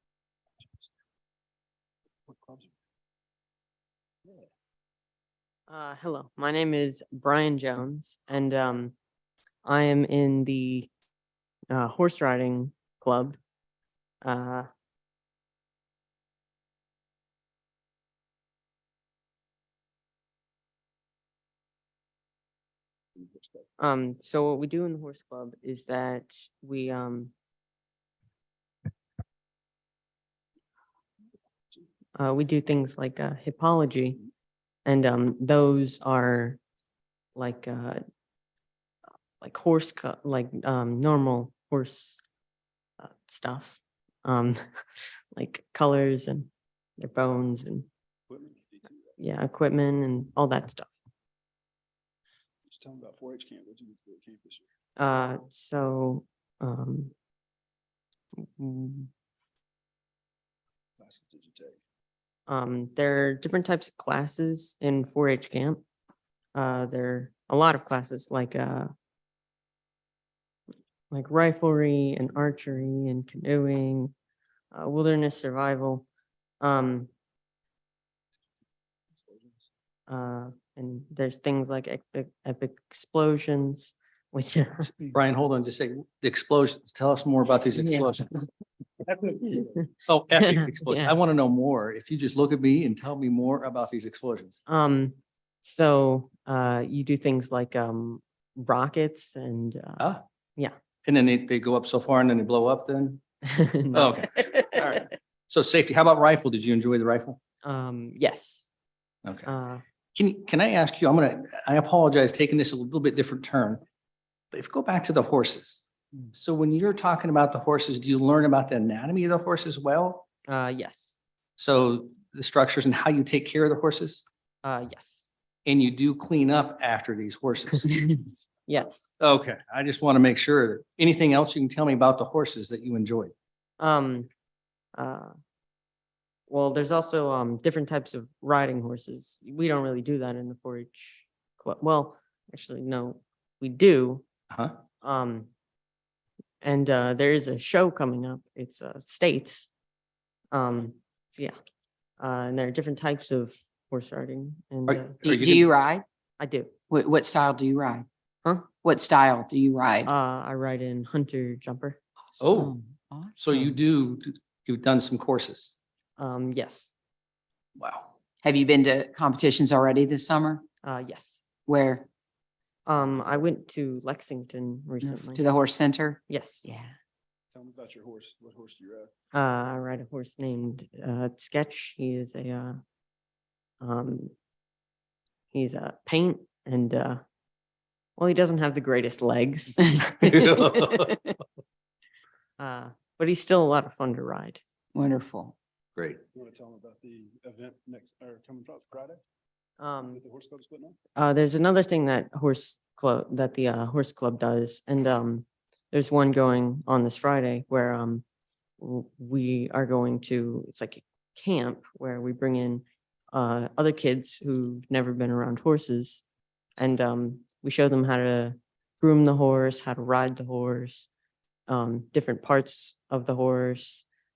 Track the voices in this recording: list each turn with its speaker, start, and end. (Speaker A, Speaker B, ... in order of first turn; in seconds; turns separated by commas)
Speaker A: 2.3-2.7, Speaker B: 5.7-8.9, Speaker B: 9.7-10.9, Speaker B: 11.7-13.4, Speaker B: 14.2-14.7, Speaker B: 23.8-27.3, Speaker B: 32.2-34.2, Speaker B: 34.9-36.6, Speaker B: 37.4-38.0, Speaker B: 39.4-42.2, Speaker B: 43.0-44.6, Speaker B: 45.3-47.9, Speaker A: 48.3-48.9, Speaker B: 49.2-50.9, Speaker A: 52.7-54.6, Speaker B: 55.0-57.1, Speaker B: 58.4-59.1, Speaker A: 61.0-61.8, Speaker B: 62.5-65.8, Speaker B: 66.5-68.9, Speaker B: 71.1-74.1, Speaker B: 74.7-76.1, Speaker B: 76.6-77.1, Speaker B: 80.1-85.0, Speaker C: 85.0-88.4, Speaker B: 87.8-88.1, Speaker B: 89.5-91.1, Speaker C: 90.1-94.6, Speaker B: 94.7-100.7, Speaker C: 101.0-103.2, Speaker B: 103.4-105.0, Speaker C: 103.9-107.4, Speaker B: 107.6-108.7, Speaker B: 109.4-109.8, Speaker C: 110.2-113.8, Speaker C: 114.5-120.2, Speaker B: 120.5-121.2, Speaker C: 121.6-124.2, Speaker B: 124.6-125.2, Speaker C: 125.7-128.0, Speaker B: 128.7-129.1, Speaker C: 129.2-133.3, Speaker B: 133.8-134.3, Speaker B: 134.9-135.3, Speaker B: 136.5-144.2, Speaker C: 144.5-144.8, Speaker B: 145.0-145.5, Speaker B: 146.6-149.7, Speaker B: 150.5-151.5, Speaker B: 152.2-155.4, Speaker C: 154.9-155.7, Speaker D: 155.2-156.0, Speaker B: 156.4-156.7, Speaker D: 156.9-158.1, Speaker B: 158.4-158.7, Speaker D: 158.7-160.1, Speaker B: 160.0-162.0, Speaker D: 162.3-163.8, Speaker C: 162.4-162.7, Speaker C: 163.4-165.8, Speaker B: 166.2-166.9, Speaker C: 167.8-168.1, Speaker D: 168.4-170.7, Speaker B: 170.8-171.5, Speaker D: 171.7-172.1, Speaker B: 172.9-175.4, Speaker D: 175.0-177.0, Speaker B: 176.3-176.7, Speaker A: 177.5-179.1, Speaker B: 179.3-182.8, Speaker B: 183.8-184.3, Speaker B: 185.5-187.2, Speaker B: 188.2-191.1, Speaker C: 190.0-191.2, Speaker B: 192.6-194.6, Speaker D: 194.9-195.5, Speaker A: 196.3-199.2, Speaker B: 199.8-200.2, Speaker A: 200.1-201.0, Speaker B: 201.2-208.2, Speaker B: 208.8-216.2, Speaker B: 216.8-221.1, Speaker B: 221.7-224.1